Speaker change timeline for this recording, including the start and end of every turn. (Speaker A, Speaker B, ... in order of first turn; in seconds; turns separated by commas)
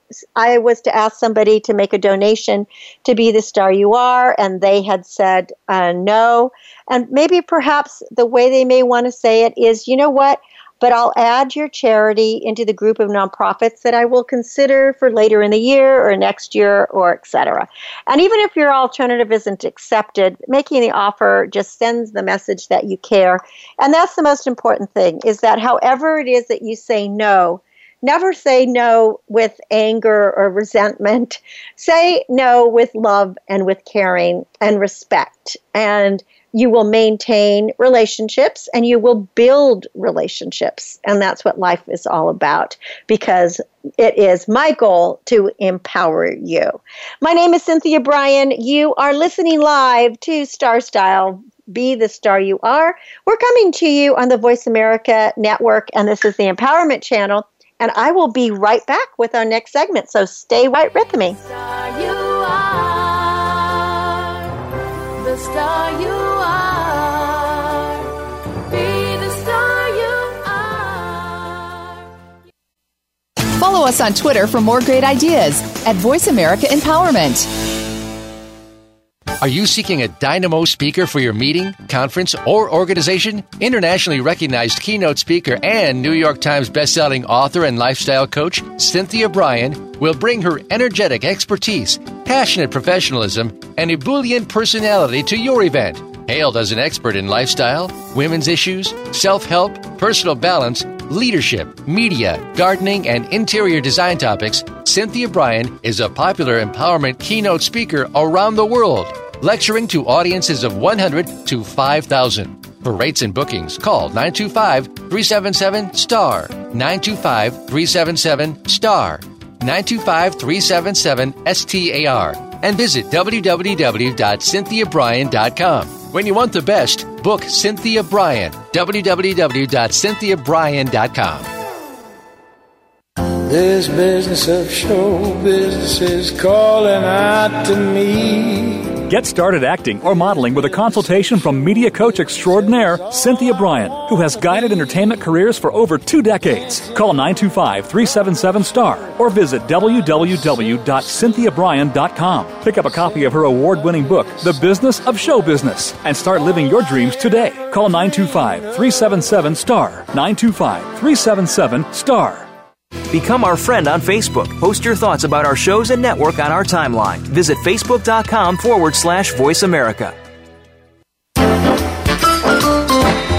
Speaker A: 0.3-61.4, Speaker B: 61.3-64.5, Speaker B: 65.2-68.1, Speaker B: 68.7-72.0, Speaker B: 73.5-77.5, Speaker C: 79.4-131.5, Speaker D: 133.4-139.0, Speaker E: 139.1-162.5, Speaker D: 142.1-144.5, Speaker F: 163.1-170.2